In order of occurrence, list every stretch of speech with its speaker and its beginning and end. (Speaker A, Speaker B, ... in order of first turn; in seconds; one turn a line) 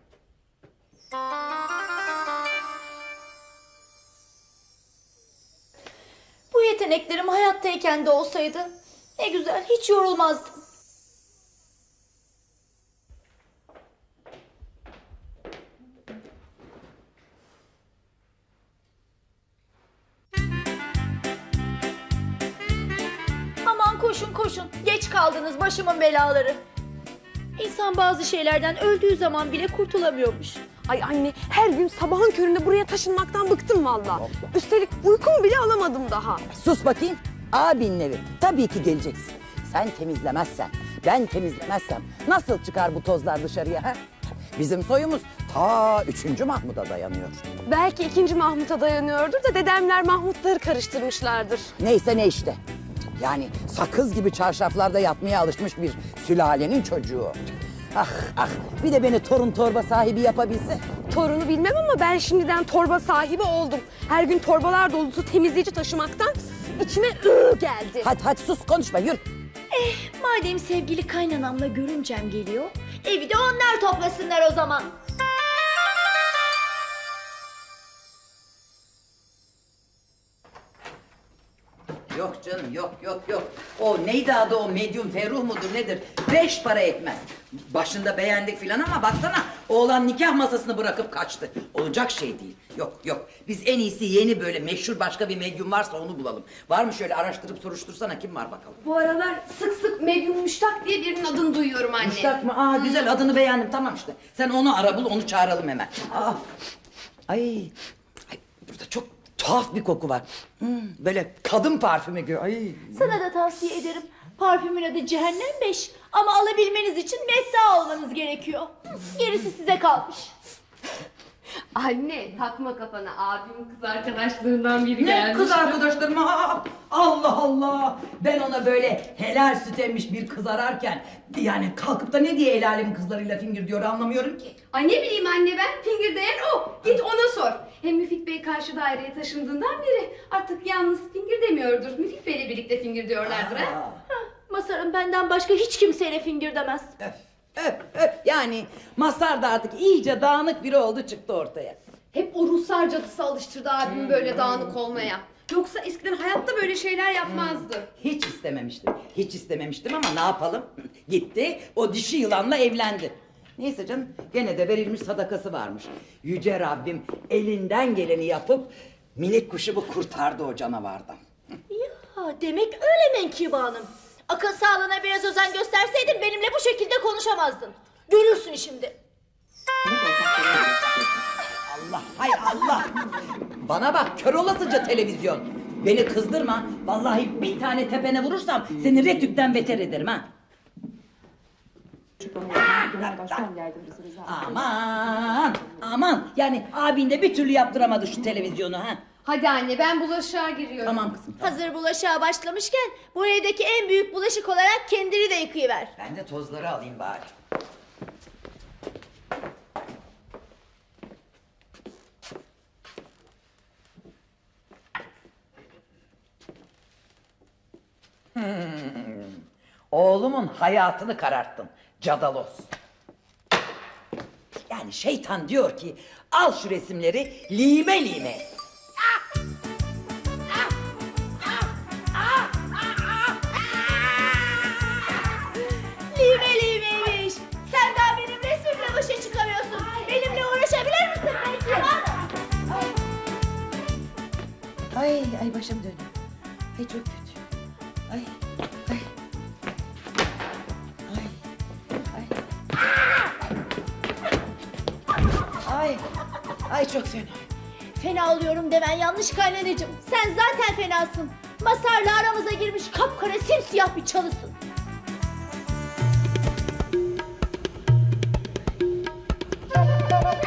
Speaker A: 6.5-10.6
Speaker A: 23.6-26.6
Speaker A: 27.6-30.6
Speaker B: 31.3-32.3
Speaker B: 32.9-33.7
Speaker C: 36.5-44.0
Speaker C: 44.6-47.6
Speaker D: 47.7-51.7
Speaker C: 51.8-52.6
Speaker C: 53.2-57.4
Speaker C: 57.9-60.8
Speaker B: 65.7-66.3
Speaker C: 68.0-69.2
Speaker A: 69.7-74.9
Speaker C: 82.1-98.8
Speaker D: 98.8-103.1
Speaker C: 102.0-106.4
Speaker C: 107.3-107.7
Speaker C: 108.3-113.2
Speaker A: 112.9-120.3
Speaker D: 121.8-125.8
Speaker C: 125.0-134.6
Speaker D: 134.7-143.8
Speaker C: 143.2-144.0
Speaker A: 144.1-146.9
Speaker C: 147.0-151.8
Speaker D: 152.1-157.9
Speaker C: 153.8-154.8
Speaker C: 157.2-171.2
Speaker A: 171.7-178.9
Speaker C: 181.7-182.9
Speaker C: 183.6-190.3
Speaker C: 192.2-193.5
Speaker C: 194.2-199.0
Speaker D: 199.2-201.0
Speaker C: 200.8-201.6
Speaker A: 201.4-205.9
Speaker C: 206.0-207.3
Speaker C: 218.3-222.7
Speaker C: 224.7-228.5
Speaker C: 232.2-232.7
Speaker C: 233.9-234.4
Speaker A: 236.1-242.2
Speaker C: 244.9-246.1
Speaker C: 246.8-247.4
Speaker C: 248.1-248.3
Speaker C: 251.1-251.4
Speaker C: 255.7-256.0
Speaker C: 256.7-257.5
Speaker A: 258.0-264.6